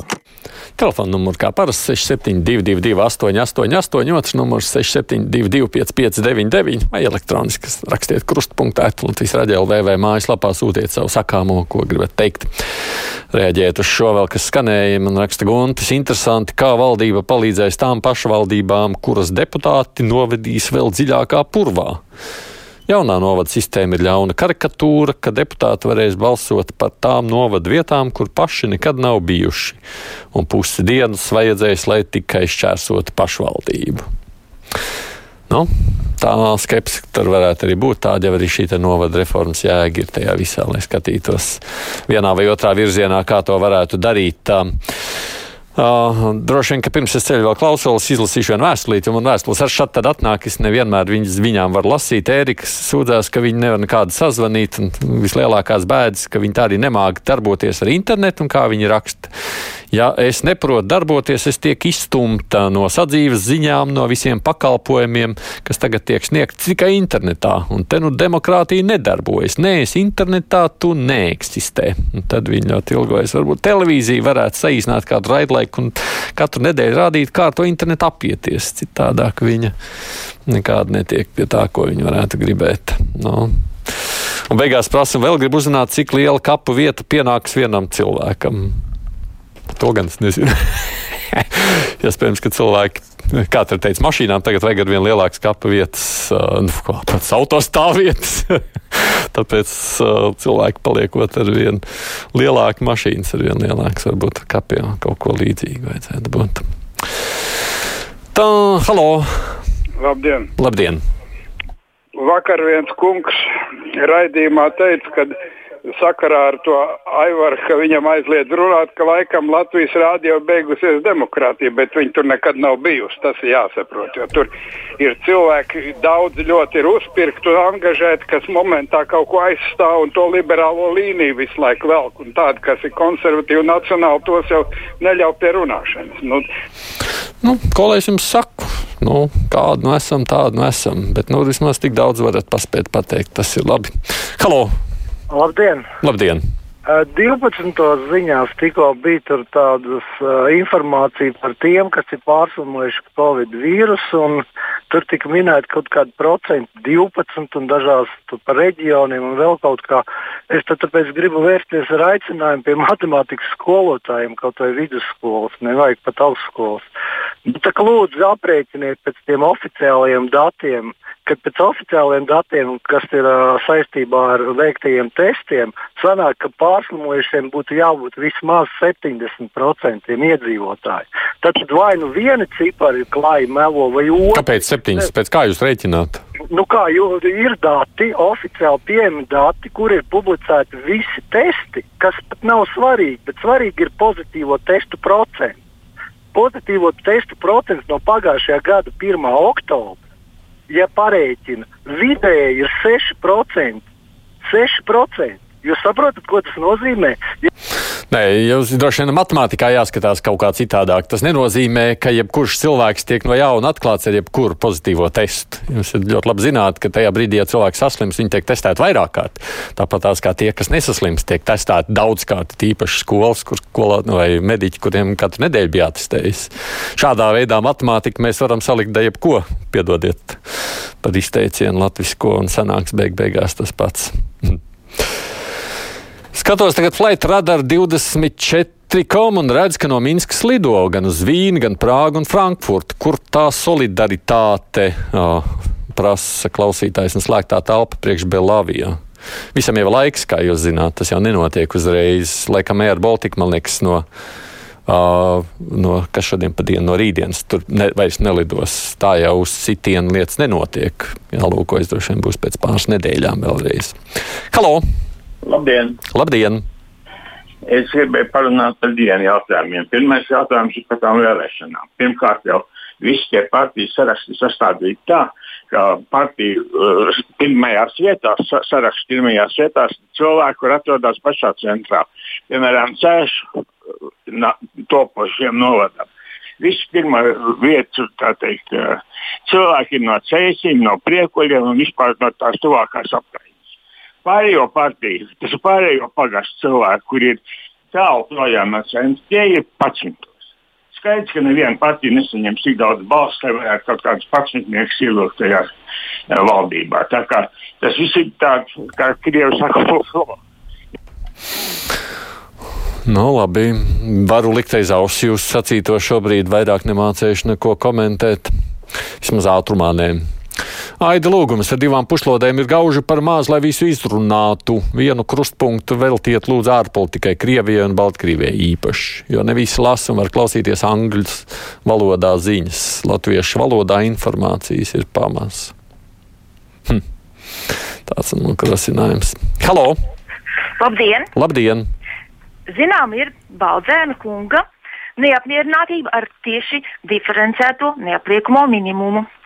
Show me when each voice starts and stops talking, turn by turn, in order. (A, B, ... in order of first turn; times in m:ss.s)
0:00.8-0:12.5 A
0:13.3-0:22.0 A
0:22.9-0:29.8 A
0:30.3-0:34.0 A
0:36.2-0:44.6 A
0:45.8-0:59.3 A
0:59.9-1:19.7 A
1:20.5-1:23.9 A
1:24.5-1:28.7 A
1:29.7-1:41.8 A
1:42.3-1:46.6 A
1:48.3-1:49.6 A
1:50.0-1:50.5 B
1:50.6-1:51.0 A
1:52.2-1:53.4 B
1:54.0-1:55.3 B
1:56.0-2:16.4 B
2:17.4-2:24.7 A
2:25.3-2:25.8 C
2:26.0-2:26.4 A
2:26.8-2:46.8 C
2:47.4-3:04.5 C
3:04.3-3:06.2 A
3:06.5-3:15.6 C
3:16.3-3:20.0 C
3:20.7-3:23.8 C
3:24.4-3:27.5 C
3:28.1-3:50.4 A
3:51.0-3:54.6 A
3:56.3-4:09.0 A
4:09.5-4:14.0 A
4:14.9-4:23.9 A
4:24.5-4:24.8 A
4:26.1-4:26.6 A
4:27.7-4:43.4 D
4:44.3-4:46.1 D
4:46.6-4:53.4 D
4:54.2-4:57.4 D
4:57.9-5:00.3 D
5:00.9-5:05.7 D
5:06.3-5:10.3 D
5:13.0-5:18.5 A
5:19.2-5:20.2 A
5:21.0-5:35.7 A
5:38.1-5:40.0 A
5:40.8-5:41.3 E
5:41.4-5:41.8 A
5:42.7-5:44.6 E
5:45.2-5:49.2 E